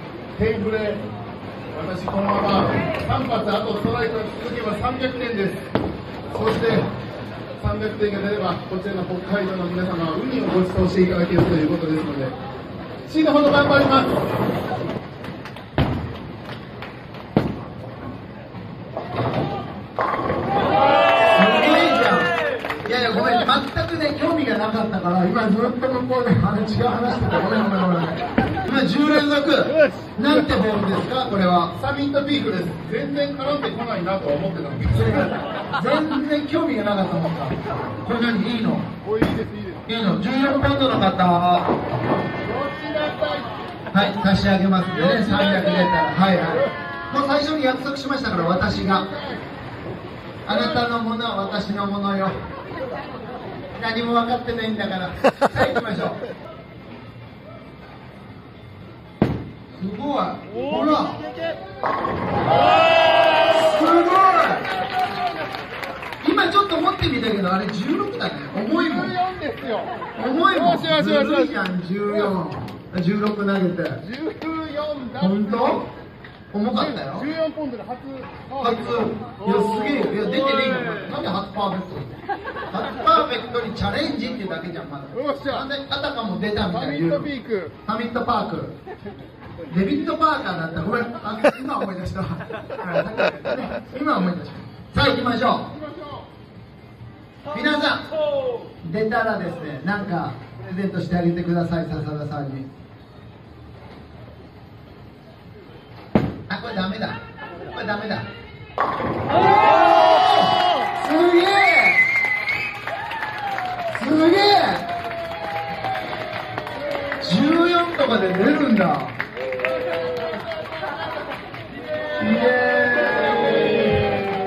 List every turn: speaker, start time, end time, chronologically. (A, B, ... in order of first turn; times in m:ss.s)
0:00.4-0:01.0 A
0:01.7-0:05.6 A
0:06.3-0:06.9 A
0:07.6-0:12.4 A
0:13.1-0:14.2 A
0:21.2-0:31.7 B
0:31.8-0:35.3 A
0:34.9-0:38.9 B
0:39.0-0:39.8 A
0:39.9-0:41.7 B
0:42.4-0:43.5 A
0:43.9-0:49.1 B
0:48.9-0:49.4 A
0:50.5-0:52.4 B
0:53.8-0:56.2 B
0:59.8-1:01.3 B
1:03.4-1:04.7 B
1:06.2-1:09.2 B
1:08.8-1:10.0 A
1:10.2-1:14.0 B
1:10.5-1:11.6 A
1:14.0-1:15.8 A
1:15.2-1:15.9 B
1:16.5-1:17.3 B
1:16.8-1:19.5 A
1:18.6-1:22.1 B
1:22.7-1:27.3 B
1:25.1-1:25.6 A
1:26.7-1:27.7 A
1:27.9-1:28.7 B
1:29.7-1:35.7 B
1:37.5-1:38.0 B
1:38.8-1:42.7 B
1:46.5-1:48.3 B
1:49.6-1:52.0 B
1:53.9-1:54.9 B
1:57.2-1:59.2 B
2:02.2-2:04.0 B